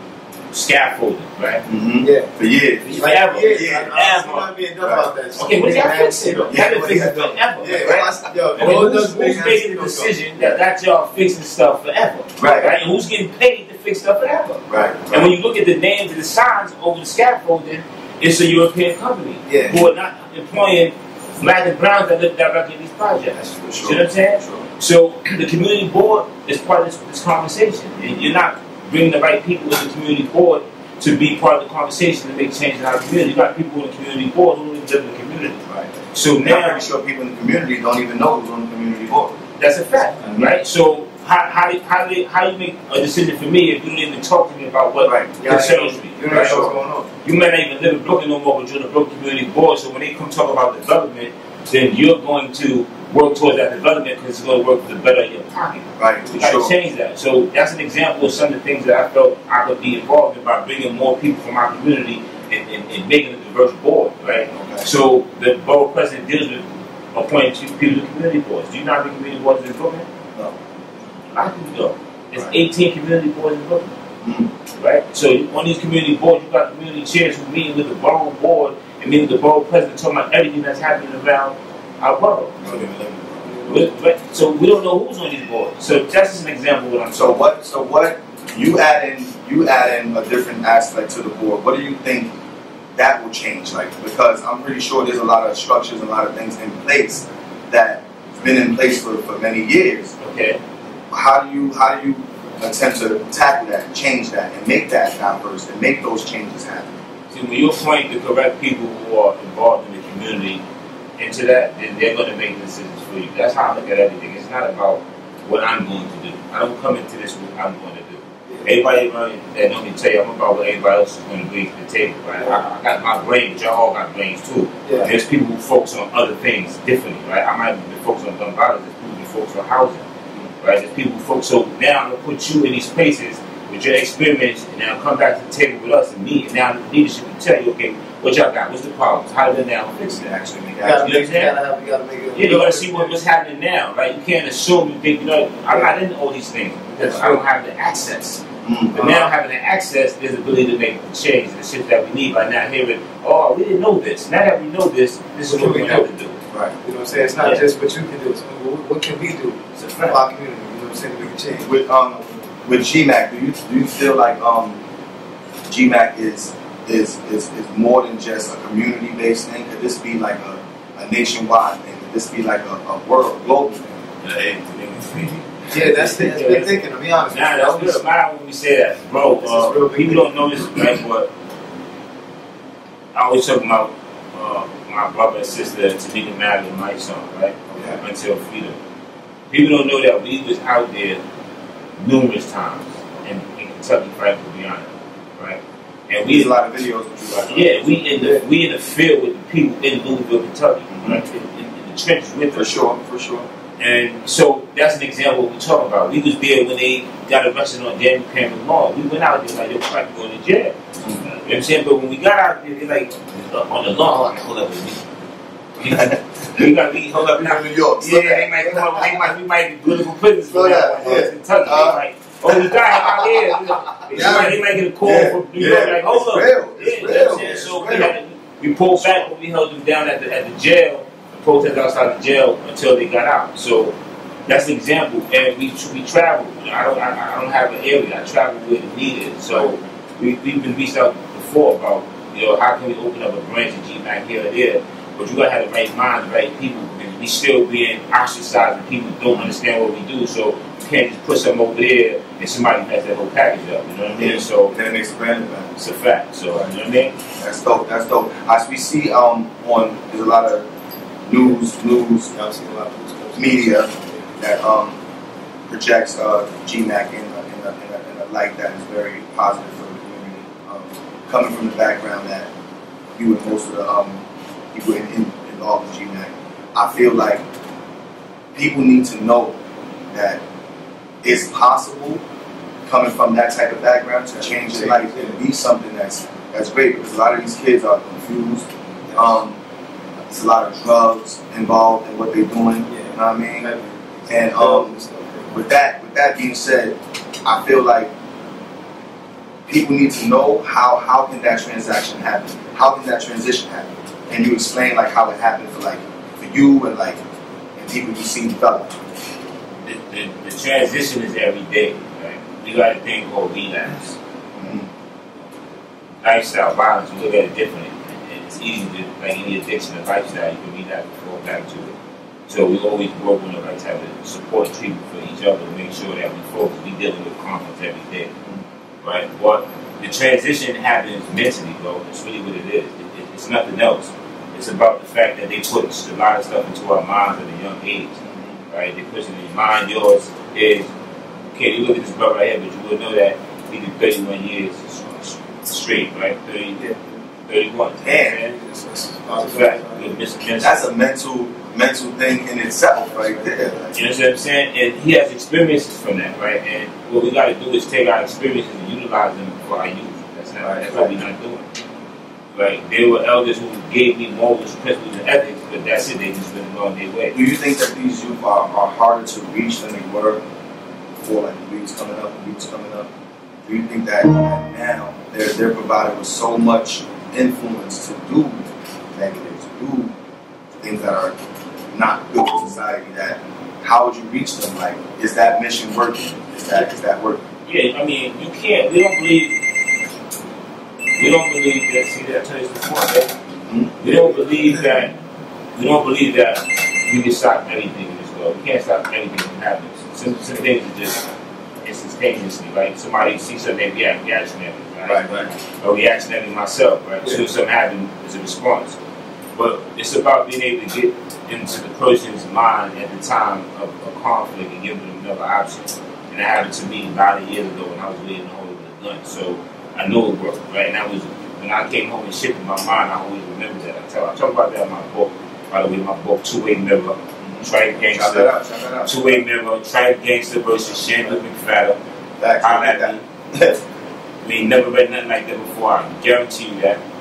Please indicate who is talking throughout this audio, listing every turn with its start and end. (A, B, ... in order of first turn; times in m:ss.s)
0:00.5-0:01.6 A
0:01.7-0:04.0 B
0:02.0-0:02.3 C
0:02.8-0:04.5 A
0:03.0-0:06.6 C
0:04.8-0:05.1 B
0:05.4-0:08.0 A
0:06.5-0:08.9 B
0:07.6-0:10.4 C
0:08.6-0:36.9 A
0:12.4-0:12.8 B
0:14.7-0:15.3 B
0:19.5-0:19.8 C
0:23.3-0:24.6 B
0:28.0-0:28.2 B
0:36.4-0:39.3 B
0:39.6-0:46.7 A
0:40.2-0:40.5 B
0:45.0-0:45.4 B
0:45.4-0:47.1 C
0:46.3-0:46.8 B
0:47.2-1:10.1 A
0:56.0-0:56.8 B
1:04.5-1:04.9 B
1:11.3-1:14.0 A
1:14.2-1:14.5 B
1:14.7-1:22.7 A
1:22.6-1:23.5 B
1:23.4-1:23.8 C
1:23.7-1:27.4 A
1:27.1-1:32.3 B
1:33.0-1:40.1 B
1:40.2-1:40.6 A
1:41.1-1:46.9 B
1:47.3-1:50.6 A
1:51.2-2:10.1 A
2:10.6-2:20.3 A
2:20.1-2:21.1 B
2:20.8-2:23.2 C
2:20.8-2:21.6 A
2:22.4-2:28.4 A
2:27.0-2:27.4 B
2:28.6-2:29.2 B
2:28.9-2:36.4 A
2:29.0-2:29.3 C
2:35.5-2:36.1 C
2:36.8-2:42.4 C
2:39.8-2:40.2 A
2:41.6-2:44.8 B
2:45.7-2:54.1 B
2:54.2-3:01.3 A
2:55.7-2:58.0 C
2:59.4-3:00.6 C
3:03.1-3:08.8 A
3:07.7-3:08.0 B
3:09.5-3:11.2 A
3:12.0-3:16.6 A
3:16.3-3:17.9 B
3:17.3-3:22.7 A
3:18.2-3:18.4 C
3:20.9-3:21.2 B
3:22.5-3:23.5 B
3:23.8-3:30.8 A
3:31.0-3:31.2 B
3:31.3-3:35.0 A
3:35.8-3:54.0 A
3:35.8-3:39.3 B
3:40.5-3:48.2 B
3:40.7-3:41.3 C
3:44.1-3:44.6 C
3:48.9-3:49.2 B
3:54.5-4:14.8 A
3:59.5-3:59.8 B
4:09.3-4:09.6 B
4:14.1-4:15.7 B
4:15.8-4:17.2 A
4:17.4-4:20.7 B
4:21.3-4:22.3 B
4:22.3-4:24.4 C
4:23.4-4:25.0 B
4:25.7-4:32.5 B
4:33.2-4:37.4 B
4:38.5-4:39.6 B
4:40.1-4:40.4 B
4:41.2-4:42.2 B
4:42.9-4:49.6 B
4:44.4-4:45.4 C
4:49.1-4:49.3 C
4:50.3-4:53.7 B
4:52.9-4:55.6 C
4:54.3-4:58.1 B
4:59.7-5:07.2 B
5:07.8-5:09.0 B
5:09.8-5:14.2 A
5:14.6-5:14.9 B
5:16.2-5:22.0 A
5:22.5-5:28.3 A
5:29.0-5:40.9 A
5:38.2-5:38.6 B
5:41.5-5:46.9 A
5:47.5-5:48.6 A
5:48.0-5:48.4 B
5:48.5-5:50.2 C
5:49.4-5:50.9 A
5:50.6-5:54.0 B
5:53.2-5:53.8 C
5:53.9-6:01.7 A
6:00.6-6:01.2 B
6:02.5-6:07.4 A
6:07.3-6:10.4 B
6:11.2-6:13.1 B
6:13.6-6:20.1 B
6:20.8-6:21.4 B
6:21.9-6:27.4 B
6:27.7-6:29.6 A
6:31.2-6:33.4 A
6:33.7-6:35.0 B
6:34.0-6:35.1 A
6:35.8-6:41.2 A
6:41.8-6:49.0 A
6:45.0-6:45.5 B
6:49.6-7:08.5 A
7:07.4-7:09.4 B
7:09.0-7:12.0 A
7:12.4-7:13.8 B
7:12.6-7:13.2 A
7:14.4-7:17.0 A